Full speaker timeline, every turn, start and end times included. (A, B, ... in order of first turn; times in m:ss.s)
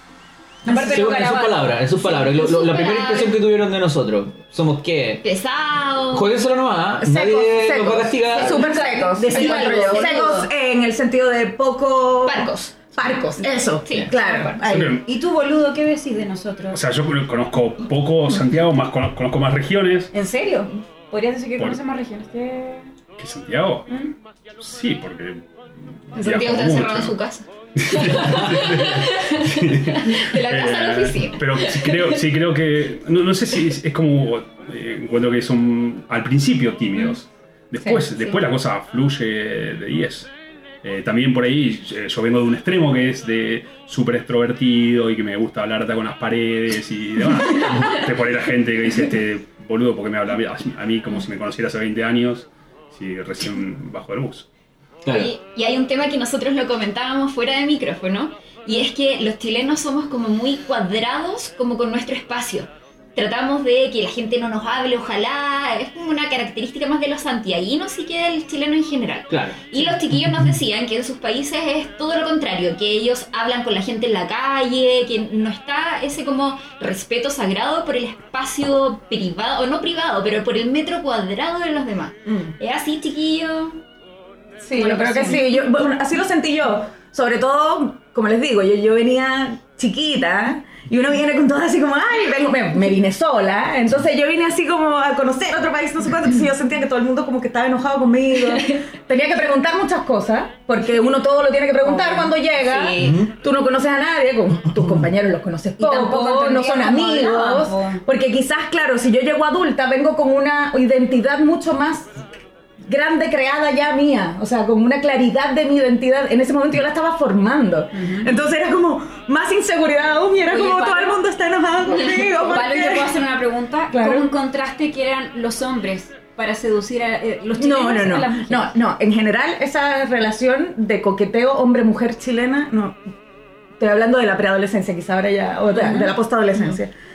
0:00.6-0:01.8 A
0:00.7-0:05.2 B
0:02.0-0:03.4 C
0:05.2-0:06.3 C
0:06.1-0:08.7 B
0:07.0-0:15.0 D
0:08.4-0:10.4 C
0:08.5-0:10.5 A
0:12.2-0:12.7 C
0:13.8-0:14.6 C
0:14.6-0:15.0 E
0:14.8-0:16.8 A
0:16.7-0:20.1 E
0:20.1-0:22.9 A
0:23.2-0:23.9 E
0:24.6-0:25.4 E
0:26.1-0:27.2 E
0:26.2-0:32.2 C
0:27.8-0:40.3 E
0:40.8-0:54.5 E
0:55.0-0:55.3 B
0:55.1-1:23.8 C
1:09.3-1:10.0 B
1:22.3-1:22.5 D
1:24.6-1:52.2 D
1:24.8-1:25.5 A
1:41.8-1:42.4 A
1:42.6-1:43.2 C
1:43.0-1:43.3 B
1:44.8-1:45.1 B
1:45.8-1:48.0 A
1:52.9-2:03.1 D
1:57.9-1:58.3 A
2:00.5-2:01.2 A
2:02.1-2:08.7 A
2:03.9-2:04.3 D
2:07.6-2:13.0 D
2:13.8-2:16.9 D
2:15.8-2:16.1 A